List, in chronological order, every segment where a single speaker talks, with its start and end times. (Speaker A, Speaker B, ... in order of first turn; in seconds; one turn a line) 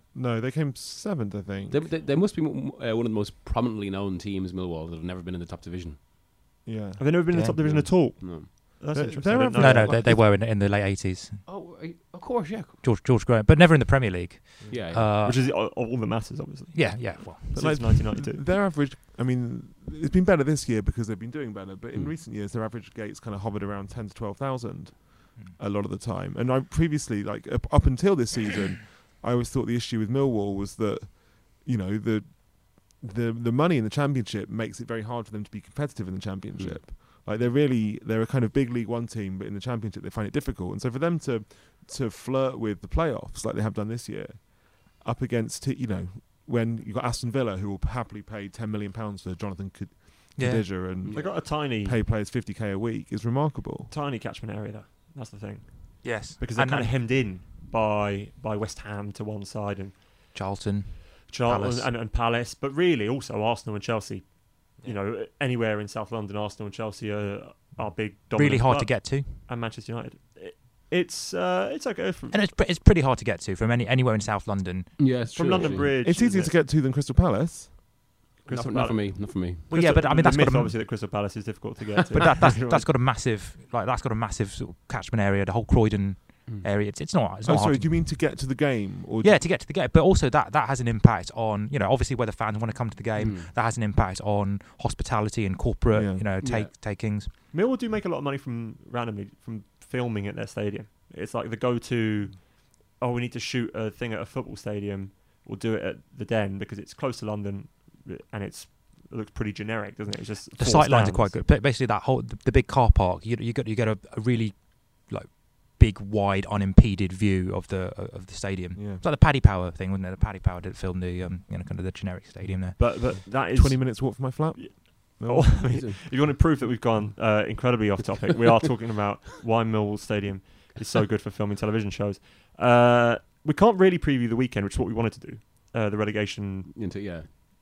Speaker A: 0.1-1.9
Speaker B: 1.7-6.0
Speaker A: 6.6-7.3
Speaker C: 7.0-10.2
Speaker D: 7.3-7.9
Speaker B: 7.6-8.5
Speaker A: 8.9-10.2
Speaker D: 9.5-11.5
Speaker B: 11.4-12.8
Speaker D: 12.8-15.5
Speaker A: 14.6-14.9
Speaker B: 14.7-15.1
Speaker C: 15.2-18.4
Speaker D: 16.7-18.0
Speaker A: 17.5-53.9
Speaker B: 36.5-36.9
Speaker D: 50.4-51.0
Speaker B: 51.0-51.3
Speaker C: 51.1-52.0
Speaker C: 53.9-60.2
Speaker D: 56.0-57.1
Speaker D: 60.3-61.9
Speaker C: 61.2-72.4
Speaker D: 68.3-69.5
Speaker D: 72.3-75.3
Speaker B: 75.0-75.9
Speaker C: 75.3-76.5
Speaker A: 75.8-77.8
Speaker C: 78.4-82.8
Speaker B: 78.5-79.7
Speaker D: 79.7-80.8
Speaker D: 82.1-88.6
Speaker A: 87.4-89.4
Speaker D: 89.2-97.3
Speaker B: 93.2-93.5
Speaker A: 95.9-96.3
Speaker B: 96.4-96.7
Speaker C: 97.5-111.5
Speaker D: 110.6-123.3
Speaker A: 118.8-119.0
Speaker C: 122.8-136.7
Speaker A: 122.8-125.8
Speaker B: 125.7-126.0
Speaker B: 136.7-137.3